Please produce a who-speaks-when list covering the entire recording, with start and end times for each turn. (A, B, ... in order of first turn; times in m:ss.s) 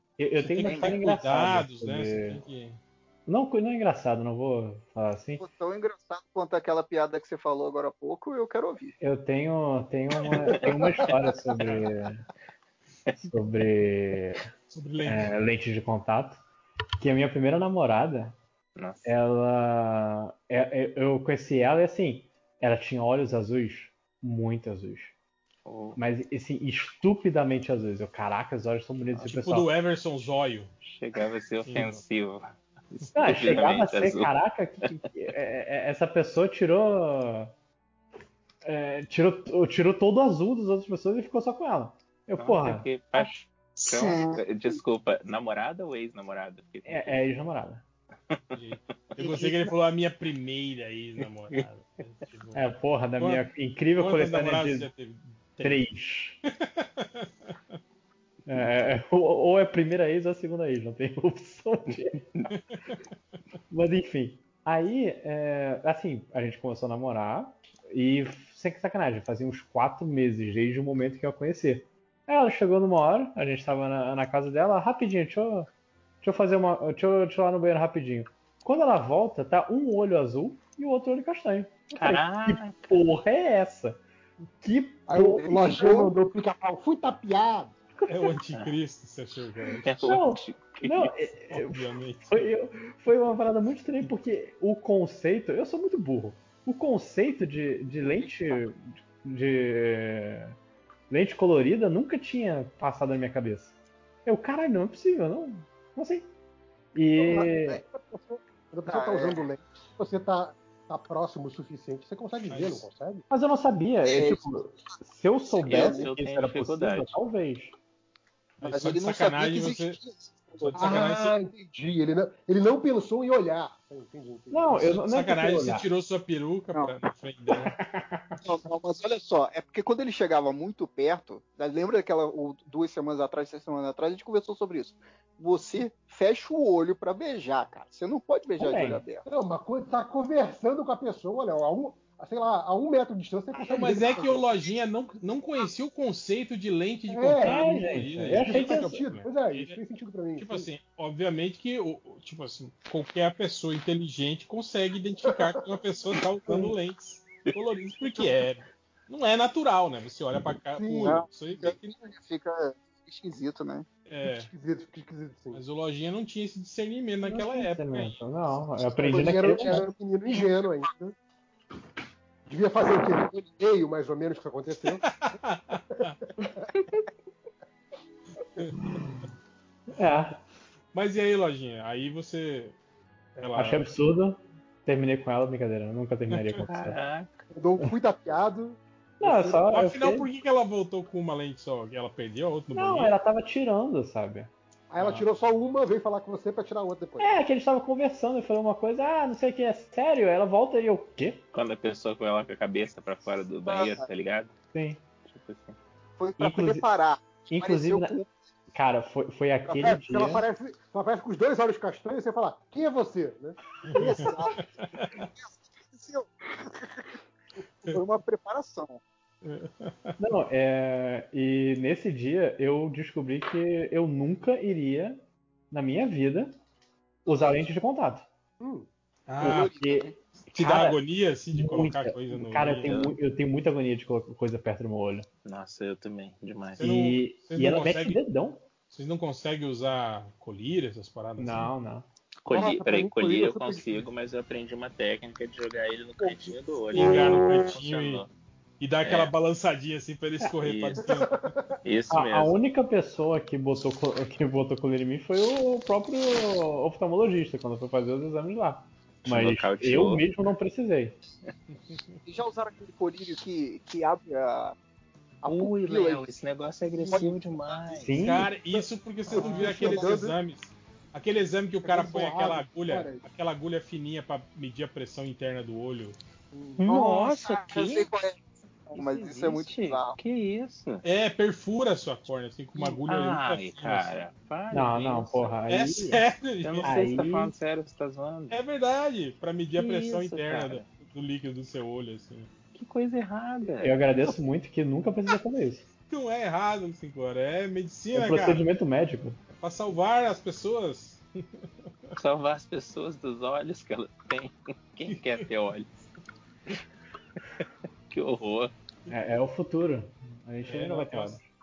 0:00.2-0:02.4 A
0:00.4-0:02.8 B
0:00.6-0:01.0 C
0:03.3-0:05.4 A
0:05.4-0:08.9 C
0:09.0-0:12.2 A
0:11.6-0:11.9 B
0:13.1-0:13.3 D
0:13.2-0:14.4 A
0:14.7-0:15.3 B
0:15.0-0:16.4 A
0:17.0-0:18.3 A
0:18.8-0:19.1 D
0:19.0-0:25.1 A
0:25.6-0:26.0 D
0:26.0-0:29.7 A
0:29.2-0:30.7 B
0:30.8-0:35.0 D
0:31.6-0:32.0 B
0:33.1-0:37.5 A
0:38.6-0:42.9 A
0:42.4-0:47.2 D
0:43.8-0:44.4 C
0:46.8-0:47.8 A
0:48.5-0:52.6 B
0:49.2-0:49.7 A
0:52.5-0:54.9 A
0:53.2-0:53.4 B
0:54.0-0:55.8 B
0:55.6-0:56.4 A
0:56.5-0:57.6 B
0:58.5-1:02.2 A
1:01.9-1:02.5 D
1:02.5-1:02.9 B
1:03.7-1:15.7 A
1:16.2-1:24.0 A
1:21.9-1:23.0 D
1:24.6-1:25.7 A
1:25.1-1:27.7 E
1:25.5-1:26.1 C
1:28.0-1:28.3 A
1:28.1-1:29.9 B
1:28.5-1:28.8 D
1:29.8-1:31.1 D
1:30.0-1:40.5 A
1:31.5-1:32.5 B
1:41.1-1:43.7 A
1:44.2-1:46.3 A
1:46.9-1:47.8 A
1:47.2-1:47.8 C
1:47.9-1:53.2 E
1:48.8-1:49.4 C
1:52.4-1:52.9 B
1:53.3-1:57.7 A
1:54.0-1:54.4 C
1:55.6-1:57.2 D
1:55.6-1:56.1 C
1:58.6-2:00.0 B
1:58.6-2:01.3 C
2:00.6-2:01.3 B
2:00.8-2:04.9 E
2:04.5-2:05.9 A
2:04.7-2:07.7 B
2:07.5-2:08.4 A
2:08.4-2:19.2 C
2:18.6-2:19.0 A
2:19.3-2:24.5 E
2:23.6-2:29.8 B
2:27.1-2:30.7 E
2:27.4-2:28.9 A
2:30.4-2:41.8 B
2:35.2-2:35.5 E
2:36.5-2:36.7 A
2:40.7-2:41.2 E
2:41.0-2:43.8 C
2:44.0-2:44.5 B
2:44.2-2:45.6 E
2:45.5-2:48.2 B
2:47.2-2:49.8 A
2:49.0-2:51.1 E
2:52.5-2:55.0 E
2:55.0-2:56.1 B
2:58.6-2:59.2 B
2:59.9-3:00.4 A
3:00.9-3:02.8 B
3:03.4-3:03.8 B
3:03.6-3:07.0 A
3:06.3-3:06.6 B
3:06.7-3:07.4 D
3:07.5-3:09.7 E
3:09.2-3:10.3 A
3:09.7-3:13.2 B
3:12.7-3:14.5 A
3:14.9-3:17.4 E
3:15.0-3:15.2 B
3:17.2-3:21.4 A
3:21.5-3:24.5 D
3:23.6-3:24.0 C
3:24.7-3:25.0 A
3:25.2-3:25.8 D
3:26.2-3:28.3 C
3:26.4-3:26.8 A
3:27.5-3:28.1 A
3:28.7-3:30.4 A
3:29.7-3:30.4 C
3:29.8-3:33.6 E
3:33.8-3:35.3 B
3:33.9-3:37.2 C
3:37.9-3:39.0 C
3:39.4-3:40.1 B
3:40.2-3:46.5 A
3:47.2-3:47.7 C
3:47.3-3:48.3 A
3:48.6-3:48.9 E
3:49.3-3:49.6 B
3:49.4-3:50.2 C
3:49.4-3:50.1 A
3:50.5-3:52.9 B
3:50.6-3:50.9 A
3:51.5-3:55.3 A
3:52.8-3:53.1 D
3:55.4-3:56.8 D
3:56.8-3:58.2 B
3:56.8-3:58.6 A
3:58.9-4:01.7 B
4:01.4-4:02.0 A
4:02.4-4:08.3 D
4:02.5-4:04.1 E
4:06.9-4:08.2 B
4:08.8-4:11.5 B
4:09.0-4:09.3 D
4:10.6-4:11.1 D
4:11.0-4:11.6 E
4:11.8-4:12.6 D
4:12.1-4:21.2 A
4:19.2-4:20.2 D
4:21.8-4:22.2 B
4:22.2-4:24.8 C
4:25.4-4:26.3 C
4:25.4-4:28.2 D
4:26.9-4:28.0 C
4:28.0-4:28.5 A
4:28.1-4:36.2 B
4:28.7-4:30.4 E
4:29.3-4:30.2 C
4:31.8-4:33.2 E
4:36.5-4:36.9 E
4:36.8-4:38.1 D
4:36.9-4:40.2 C
4:38.9-4:41.0 D
4:41.0-4:44.2 B
4:42.8-4:45.5 D
4:44.7-4:46.2 A
4:45.7-4:47.0 B
4:46.6-4:48.6 D
4:46.8-4:47.5 A
4:48.5-4:52.5 B
4:49.7-4:50.9 D
4:52.7-4:54.3 D
4:53.8-4:55.8 A
4:56.1-4:58.6 B
4:58.1-4:59.4 A
4:59.5-5:02.1 B
5:02.2-5:05.9 D
5:05.1-5:05.4 B
5:08.1-5:08.7 D
5:09.1-5:11.4 A
5:10.6-5:11.4 B